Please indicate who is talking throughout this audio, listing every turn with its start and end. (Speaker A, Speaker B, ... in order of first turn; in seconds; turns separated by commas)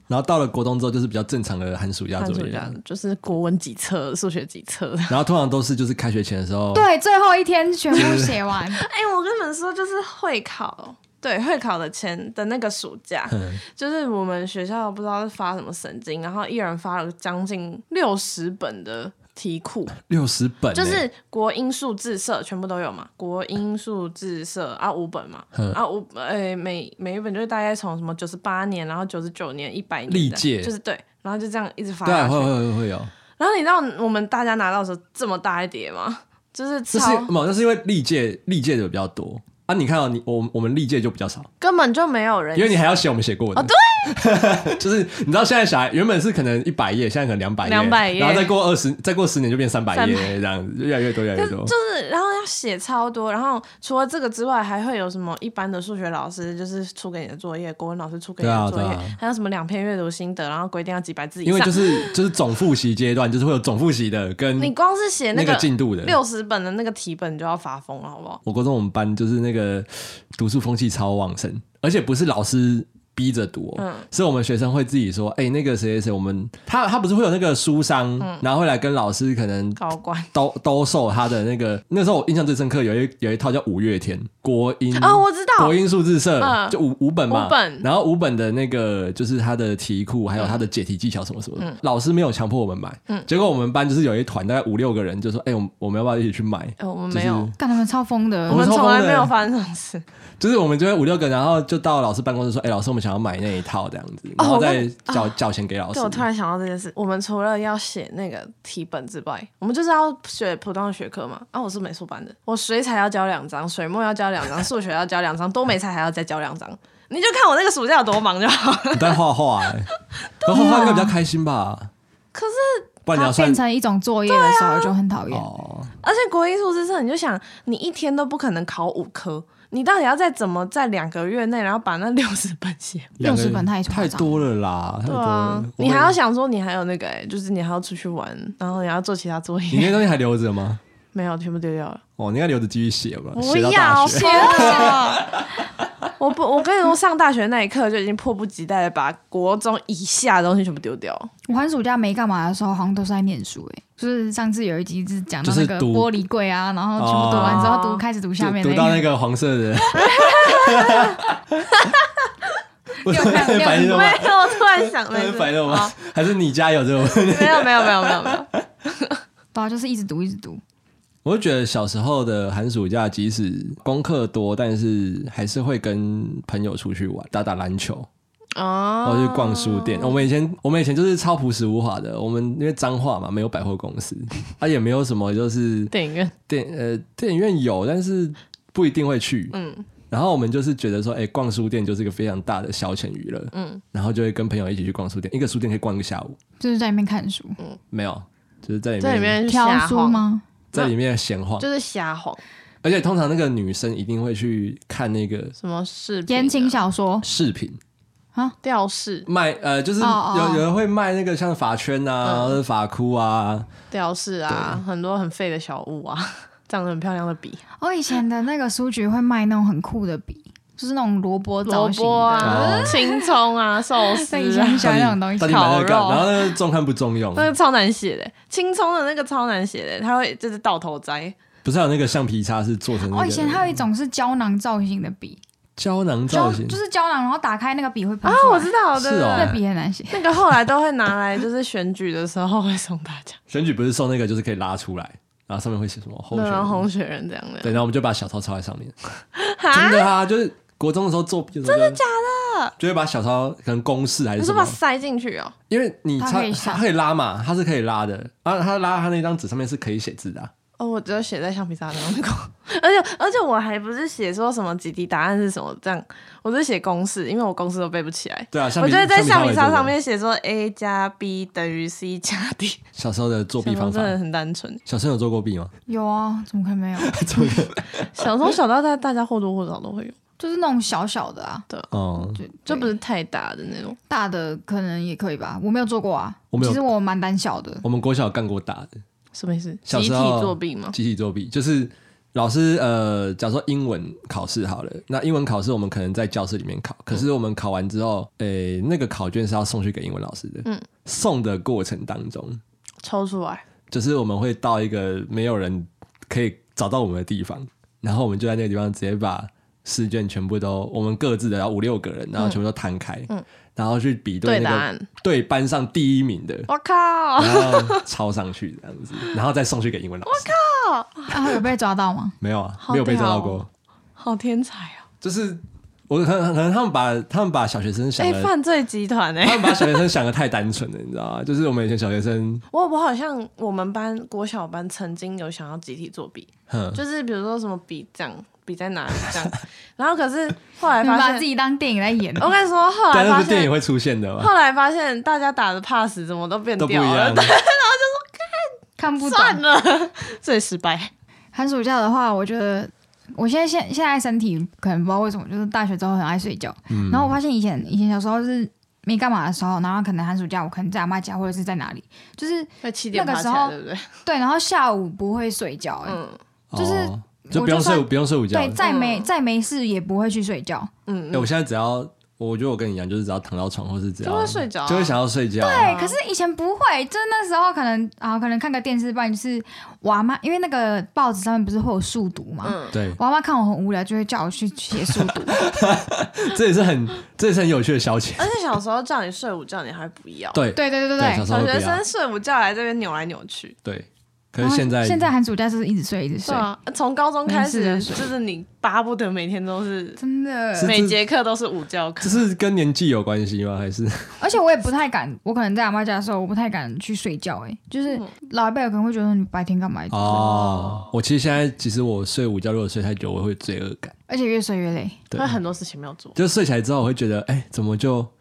Speaker A: 0.1-2.8, Speaker B: 2.2-5.2, Speaker A: 5.1-6.9, Speaker C: 6.7-8.8, Speaker A: 7.9-8.4, Speaker B: 8.0-20.0, Speaker A: 13.3-13.6, Speaker A: 20.1-21.1, Speaker B: 20.7-32.6, Speaker A: 30.1-30.7, Speaker A: 32.0-33.1, Speaker B: 33.4-37.3, Speaker A: 36.9-41.5, Speaker B: 41.6-42.8, Speaker A: 42.5-51.7, Speaker B: 43.5-44.2, Speaker B: 47.6-48.5, Speaker B: 49.9-50.4, Speaker B: 51.3-62.2, Speaker A: 58.4-59.2, Speaker A: 61.5-64.7, Speaker B: 64.6-68.4, Speaker A: 65.3-66.2, Speaker A: 68.5-79.8, Speaker B: 73.8-74.1, Speaker B: 79.8-80.3, Speaker A: 80.3-97.6, Speaker B: 85.0-85.8, Speaker B: 86.4-86.8, Speaker B: 87.3-87.9, Speaker B: 90.4-90.6, Speaker B: 96.8-97.5, Speaker C: 97.6-98.6, Speaker A: 98.5-99.3, Speaker B: 98.5-100.0, Speaker A: 100.4-106.3, Speaker B: 104.4-105.3, Speaker B: 105.9-119.2, Speaker A: 118.9-119.9, Speaker B: 120.4-121.0, Speaker A: 120.4-121.9, Speaker C: 120.5-121.1, Speaker B: 122.3-122.9, Speaker A: 123.0-123.6, Speaker C: 123.1-125.5, Speaker B: 124.3-124.9, Speaker A: 125.3-125.9, Speaker B: 126.0-133.2, Speaker A: 133.2-136.2, Speaker C: 133.2-134.4, Speaker B: 135.1-140.0, Speaker A: 139.7-140.8, Speaker B: 141.1-142.0, Speaker A: 142.2-145.6, Speaker B: 143.3-145.3, Speaker C: 144.2-145.0, Speaker B: 146.2-151.3, Speaker C: 151.5-159.1, Speaker A: 155.4-156.1, Speaker A: 157.0-157.8, Speaker B: 157.3-158.0, Speaker A: 158.4-161.9, Speaker B: 159.9-161.2, Speaker A: 163.0-168.4, Speaker C: 163.1-164.2, Speaker B: 163.5-165.9, Speaker B: 167.1-169.2, Speaker C: 169.5-170.6, Speaker A: 171.2-178.1, Speaker B: 178.6-180.2, Speaker A: 179.0-185.9, Speaker B: 185.9-186.3, Speaker A: 186.5-189.6, Speaker B: 189.5-189.9, Speaker A: 190.1-196.4, Speaker B: 193.5-193.8, Speaker C: 196.6-197.6, Speaker A: 197.9-199.4, Speaker B: 199.0-200.9, Speaker C: 199.5-200.4, Speaker A: 200.7-201.7, Speaker B: 201.6-202.4, Speaker A: 202.8-205.6, Speaker B: 205.6-206.8, Speaker C: 206.3-207.3, Speaker A: 207.2-207.8, Speaker B: 208.6-209.3, Speaker A: 209.3-213.7, Speaker C: 210.0-210.7, Speaker B: 212.2-212.6, Speaker B: 213.9-217.6, Speaker A: 214.5-214.8, Speaker C: 217.8-223.3, Speaker B: 221.7-226.5, Speaker A: 222.4-223.0, Speaker C: 224.2-225.9, Speaker A: 224.8-227.5, Speaker B: 227.3-231.3, Speaker A: 231.6-233.8, Speaker C: 233.1-235.4, Speaker A: 235.8-236.8, Speaker C: 236.3-238.7, Speaker B: 238.2-243.4, Speaker A: 238.9-239.6, Speaker C: 239.3-240.3, Speaker A: 243.5-246.9, Speaker B: 246.3-247.8, Speaker A: 247.6-249.0, Speaker B: 249.3-250.1, Speaker A: 249.7-252.0, Speaker B: 251.7-252.8, Speaker A: 252.8-254.8, Speaker B: 254.4-255.6, Speaker A: 255.7-260.5, Speaker C: 256.2-256.8, Speaker B: 260.8-272.8, Speaker A: 268.5-269.9, Speaker A: 273.0-274.2, Speaker B: 273.6-274.8, Speaker A: 274.9-275.7, Speaker C: 275.9-277.2, Speaker A: 277.0-278.1, Speaker B: 278.1-280.2, Speaker C: 280.4-281.7, Speaker A: 281.9-282.4, Speaker C: 282.4-282.9, Speaker B: 282.7-284.0, Speaker C: 284.1-287.9, Speaker A: 286.5-286.9, Speaker A: 287.8-288.9, Speaker B: 289.3-291.0, Speaker A: 289.9-302.6, Speaker B: 303.0-303.6, Speaker A: 303.9-316.7, Speaker B: 314.4-315.1, Speaker B: 316.7-318.0, Speaker A: 317.4-320.5, Speaker B: 320.3-321.6, Speaker C: 321.3-322.4, Speaker A: 322.4-323.7, Speaker B: 322.8-323.6, Speaker B: 324.2-325.1, Speaker A: 325.2-328.5, Speaker B: 328.2-330.1, Speaker A: 329.4-332.6, Speaker B: 332.7-341.5, Speaker A: 336.7-337.0, Speaker C: 341.0-342.5, Speaker B: 342.4-343.8, Speaker A: 343.1-344.5, Speaker B: 344.4-351.1, Speaker A: 346.8-347.6, Speaker C: 349.0-349.6, Speaker C: 351.5-366.2, Speaker A: 356.9-357.4, Speaker B: 362.8-364.1, Speaker B: 366.1-366.4, Speaker A: 366.7-368.8, Speaker C: 366.8-370.9, Speaker B: 368.8-369.3, Speaker B: 371.1-371.5, Speaker A: 371.3-375.9, Speaker B: 374.2-375.2, Speaker C: 375.6-385.6, Speaker B: 375.8-376.2, Speaker B: 382.6-383.0, Speaker A: 382.9-383.2, Speaker A: 385.1-388.5, Speaker B: 388.4-390.6, Speaker A: 390.5-392.0, Speaker C: 390.7-391.5, Speaker B: 391.5-393.8, Speaker A: 393.9-395.3, Speaker C: 394.6-396.7, Speaker B: 396.5-400.2, Speaker C: 397.5-398.3, Speaker C: 400.2-401.0, Speaker A: 400.8-401.2, Speaker B: 400.8-402.5, Speaker A: 402.2-404.4, Speaker C: 404.4-410.7, Speaker A: 410.1-414.1, Speaker B: 410.3-411.1, Speaker C: 414.3-415.2, Speaker B: 415.4-416.4, Speaker A: 416.4-418.3